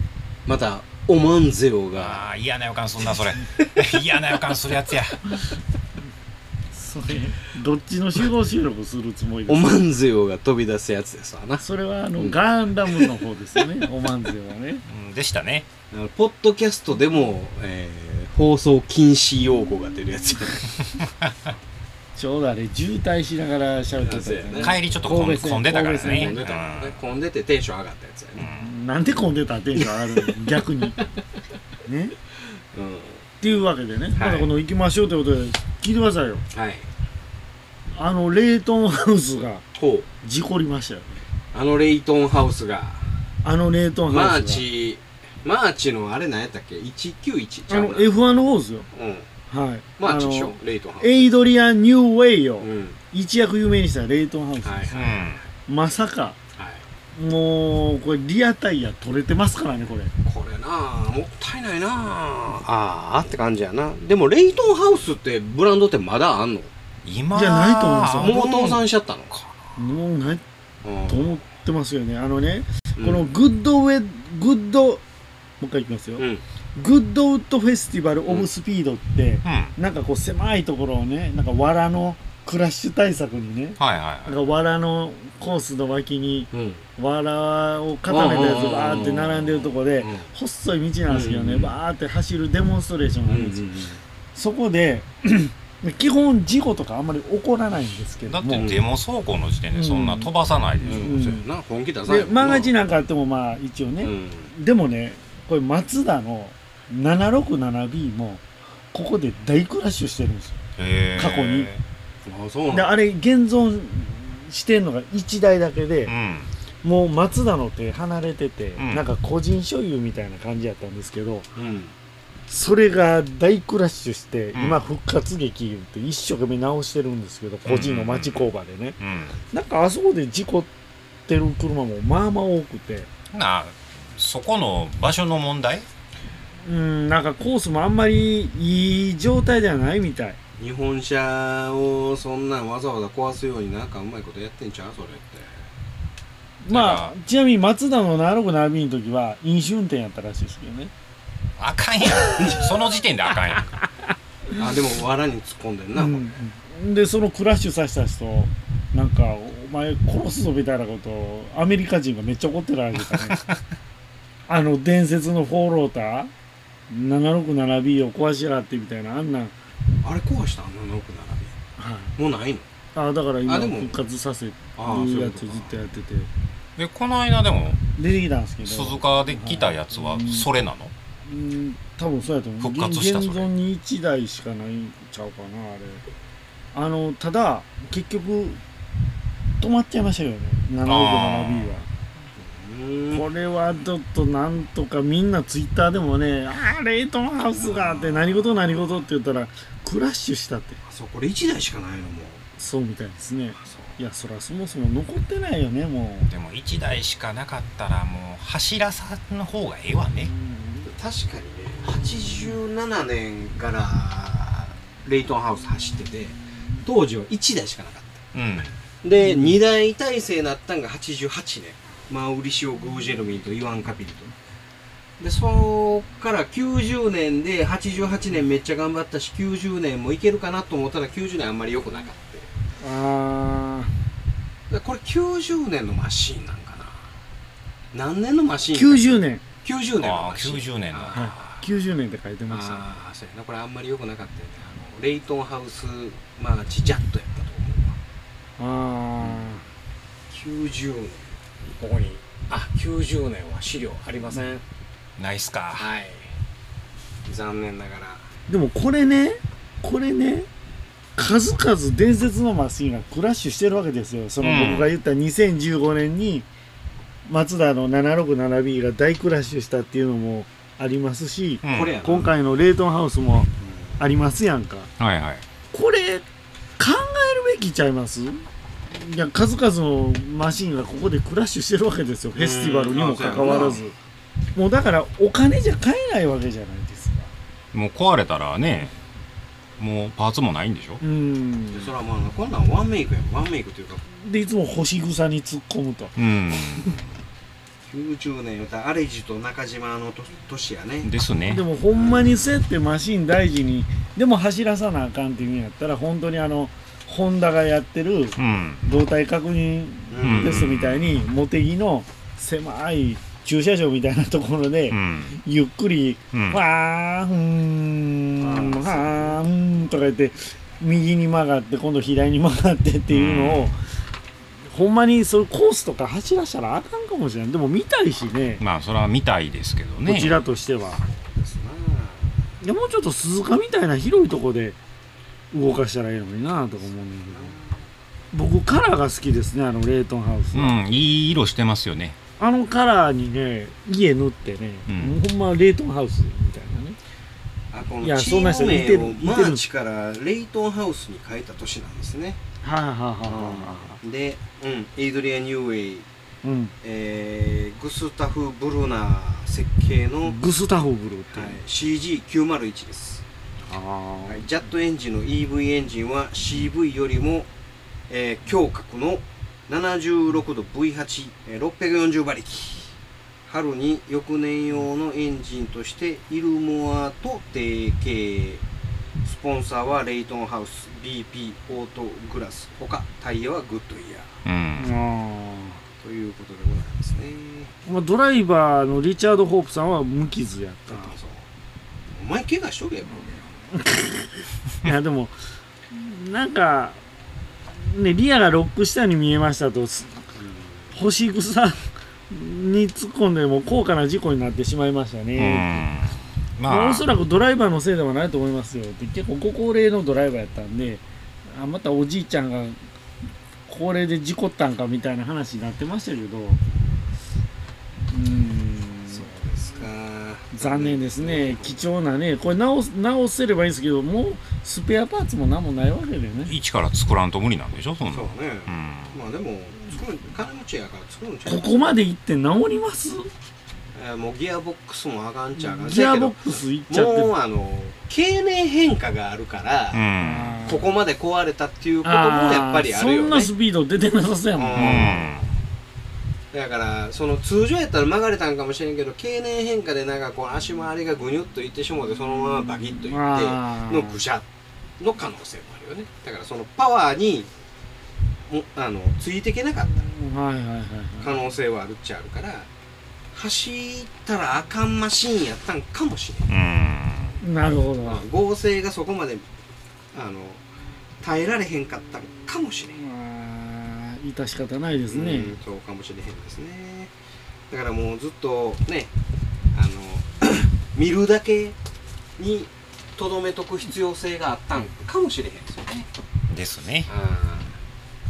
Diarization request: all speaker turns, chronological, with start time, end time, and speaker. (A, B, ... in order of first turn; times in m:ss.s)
0:00.4-0:02.2 A
0:01.9-0:05.2 B
0:06.7-0:09.8 C
0:09.5-0:11.6 A
0:11.6-0:14.8 C
0:12.2-0:13.1 A
0:14.8-0:15.7 B
0:15.9-0:20.7 A
0:22.2-0:26.4 C
0:24.0-0:25.0 A
0:24.6-0:27.0 B
0:26.0-0:28.5 A
0:28.4-0:28.7 B
0:28.6-0:31.0 C
0:29.8-0:30.3 A
0:31.8-0:32.1 C
0:32.7-0:33.2 A
0:33.4-0:36.4 C
0:34.2-0:34.5 A
0:36.5-0:36.9 A
0:37.9-0:39.6 C
0:39.8-0:40.1 A
0:40.2-0:41.2 C
0:41.5-0:43.1 A
0:43.4-0:44.7 C
0:44.1-0:48.1 A
0:47.7-0:48.8 C
0:48.9-0:49.3 A
0:49.5-0:55.0 C
0:50.0-0:51.3 A
0:52.6-0:53.0 A
0:54.6-0:55.5 A
0:54.9-0:55.4 B
0:55.7-0:56.4 C
0:56.6-0:56.8 A
0:57.1-1:00.1 C
1:00.2-1:06.7 A
1:07.0-1:08.8 B
1:07.3-1:08.5 C
1:08.2-1:09.6 A
1:09.8-1:10.4 C
1:10.8-1:11.4 A
1:11.1-1:15.0 C
1:13.0-1:13.3 A
1:15.6-1:16.2 C
1:16.2-1:16.4 A
1:16.8-1:33.7 C
1:19.4-1:19.7 B
1:23.8-1:24.4 B
1:26.5-1:26.8 A
1:28.1-1:30.2 A
1:31.1-1:31.7 A
1:33.3-1:34.0 A
1:34.3-1:38.7 C
1:38.3-1:41.1 B
1:38.5-1:38.8 A
1:39.7-1:40.3 C
1:40.8-1:42.7 A
1:40.9-1:41.4 C
1:42.1-1:50.6 C
1:44.0-1:44.5 A
1:50.8-1:51.8 B
1:51.2-1:51.7 C
1:52.2-1:53.0 A
1:52.7-1:56.1 C
1:56.0-1:56.5 B
1:56.8-2:01.5 C
1:58.8-1:59.0 B
2:01.6-2:01.9 A
2:02.5-2:09.0 C
2:04.5-2:04.8 B
2:07.6-2:09.4 B
2:09.5-2:10.7 C
2:11.3-2:13.1 C
2:13.3-2:15.9 B
2:16.6-2:20.4 C
2:20.6-2:25.5 A
2:26.6-2:30.9 C
2:26.7-2:27.1 B
2:31.6-2:33.7 B
2:32.4-2:32.7 A
2:34.5-2:36.3 A
2:35.9-2:43.4 C
2:43.1-2:43.6 B
2:44.5-2:46.3 C
2:46.9-2:49.5 C
2:50.0-2:51.5 A
2:51.8-2:52.1 C
2:52.2-2:52.7 A
2:52.9-2:56.3 C
2:53.4-2:54.0 A
2:54.8-2:55.8 A
2:56.8-2:57.8 B
2:58.0-3:00.5 C
2:58.6-3:00.9 B
3:01.2-3:06.0 C
3:02.6-3:03.5 B
3:06.7-3:08.6 C
3:09.6-3:11.9 C
3:10.8-3:11.8 B
3:12.4-3:13.2 A
3:13.1-3:20.8 C
3:17.6-3:18.8 A
3:20.8-3:22.4 A
3:22.6-3:26.3 C
3:23.6-3:24.0 A
3:26.3-3:30.3 B
3:30.4-3:30.8 C
3:30.8-3:38.2 A
3:38.3-3:38.8 B
3:39.0-3:44.3 A
3:39.2-3:39.6 C
3:45.2-3:52.5 A
3:52.8-3:53.9 C
3:54.7-3:57.0 A
3:57.9-4:01.6 A
3:58.7-3:59.4 C
4:00.0-4:01.3 B
4:01.1-4:02.8 C
4:02.5-4:08.0 A
4:08.6-4:09.6 C
4:09.2-4:09.6 A
4:10.3-4:14.6 A
4:15.2-4:15.9 B
4:15.8-4:16.3 A
4:17.2-4:18.3 A
4:18.5-4:20.5 C
4:21.2-4:26.5 C
4:24.4-4:24.9 B
4:27.2-4:34.9 C
4:31.6-4:32.0 B
4:31.7-4:32.3 A
4:33.6-4:34.0 A
4:35.0-4:35.4 B
4:35.7-4:36.2 C
4:36.8-4:43.9 C
4:42.3-4:43.8 A
4:44.5-4:47.3 C
4:47.7-4:49.0 B
4:49.8-4:51.0 B
4:51.0-4:51.9 C
4:51.7-4:54.0 A
4:54.1-4:56.1 C
4:56.2-4:57.1 B
4:57.9-5:01.1 A
5:01.0-5:01.6 B
5:01.5-5:23.8 C
5:01.9-5:02.4 A
5:08.4-5:08.9 B
5:10.1-5:10.6 A
5:10.2-5:11.2 B
5:14.9-5:15.4 B
5:16.3-5:16.6 B
5:18.4-5:19.4 A
5:23.1-5:23.7 B
5:24.7-5:28.6 C
5:28.6-5:30.4 B
5:30.0-5:31.0 C
5:31.0-5:32.5 A
5:32.6-5:34.8 C
5:35.5-5:37.5 C
5:37.3-5:37.8 A
5:38.3-5:40.8 C
5:40.5-5:42.2 B
5:42.4-5:47.0 C
5:44.9-5:45.2 B
5:47.7-5:52.4 A
5:48.0-5:49.6 C
5:52.6-5:54.0 C
5:53.2-5:56.0 A
5:56.4-5:56.7 C
5:56.8-6:00.4 A
6:00.2-6:01.6 C
6:01.3-6:03.2 A
6:03.7-6:04.4 C
6:04.3-6:07.5 A
6:08.1-6:12.9 A
6:13.5-6:18.6 A
6:19.2-6:24.3 A
6:24.4-6:24.9 B
6:24.8-6:25.8 C
6:26.0-6:27.7 A
6:27.8-6:31.1 C
6:30.9-6:31.4 A
6:32.1-6:33.3 A
6:33.7-6:35.3 C
6:35.9-6:37.0 C
6:37.7-6:40.2 C
6:40.4-6:40.9 A
6:40.9-6:45.8 C
6:45.4-6:47.1 B
6:46.6-6:52.8 C
6:53.7-6:56.6 C
6:58.1-6:59.2 C
6:59.1-7:01.8 A
7:00.5-7:06.5 C
7:06.5-7:09.2 B
7:08.1-7:12.0 A
7:11.4-7:13.3 C
7:13.9-7:20.0 A
7:15.6-7:17.3 C
7:19.9-7:20.6 B
7:20.2-7:20.9 C
7:20.6-7:23.5 A
7:22.0-7:25.2 C
7:24.6-7:25.3 A
7:24.7-7:25.5 B
7:26.5-7:34.4 A
7:33.0-7:34.2 C
7:35.0-7:37.5 A
7:38.5-7:40.1 A
7:40.0-7:41.3 C
7:41.2-7:42.7 A
7:43.3-7:46.5 A
7:46.5-7:47.4 B
7:47.4-7:48.2 C
7:48.0-7:49.4 A
7:50.1-7:50.6 A
7:51.2-7:53.0 A
7:52.9-7:55.5 C
7:55.1-7:57.1 A
7:57.7-7:59.1 A
7:59.7-8:01.8 A
8:02.4-8:06.1 A
8:06.5-8:07.1 B
8:07.1-8:07.8 A